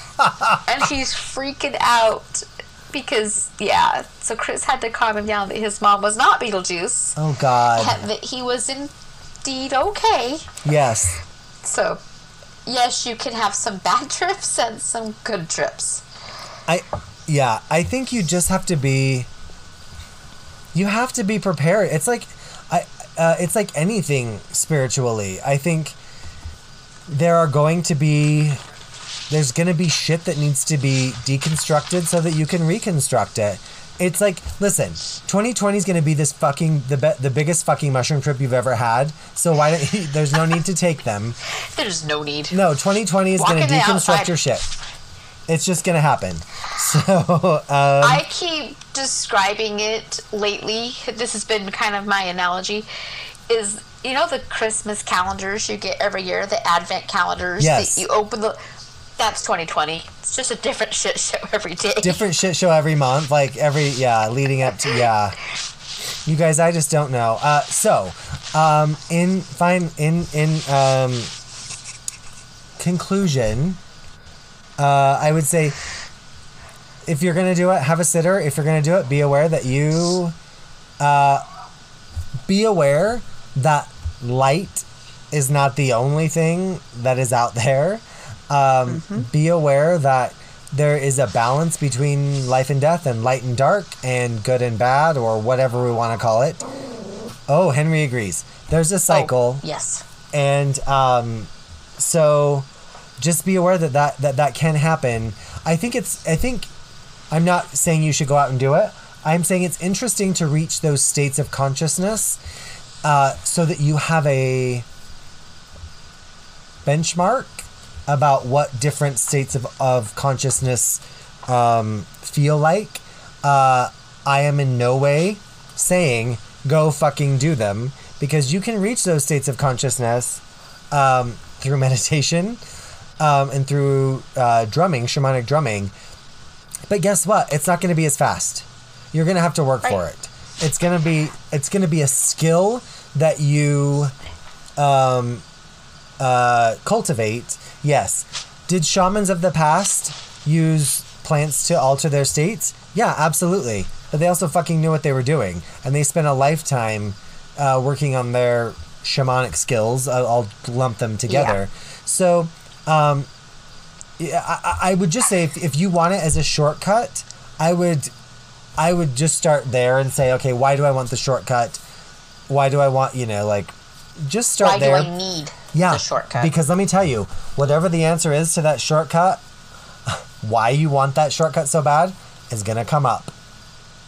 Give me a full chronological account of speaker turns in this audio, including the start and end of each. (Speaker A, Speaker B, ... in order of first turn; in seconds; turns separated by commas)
Speaker A: 0.2-0.6, Speaker B: 0.7-7.2, Speaker A: 7.2-8.0, Speaker B: 7.7-8.9, Speaker B: 9.4-10.5, Speaker A: 10.6-11.2, Speaker B: 11.6-12.0, Speaker B: 12.6-16.0, Speaker A: 16.7-19.3, Speaker A: 20.7-25.9, Speaker A: 27.1-28.6, Speaker A: 29.3-41.4, Speaker B: 41.6-42.5, Speaker A: 42.5-44.6, Speaker B: 43.4-44.3, Speaker A: 45.5-48.2, Speaker B: 48.0-52.9, Speaker B: 53.5-58.6, Speaker A: 57.6-58.0, Speaker B: 59.2-62.2, Speaker A: 62.0-65.4, Speaker A: 66.2-71.3, Speaker A: 72.8-73.8, Speaker A: 74.8-75.8, Speaker A: 77.0-80.3, Speaker A: 81.0-81.4, Speaker A: 82.5-96.6, Speaker B: 88.9-89.2, Speaker A: 97.5-99.7, Speaker B: 99.1-100.0, Speaker A: 100.3-102.7, Speaker A: 103.2-106.7, Speaker A: 107.3-112.4, Speaker A: 113.0-114.8, Speaker A: 116.8-132.6, Speaker A: 133.2-135.9, Speaker A: 136.9-144.1, Speaker A: 144.8-145.4, Speaker A: 146.2-163.3, Speaker B: 161.3-161.6, Speaker A: 164.2-168.1, Speaker A: 168.8-171.8, Speaker A: 172.5-175.1, Speaker B: 174.6-176.5, Speaker A: 175.7-179.4, Speaker A: 180.1-183.3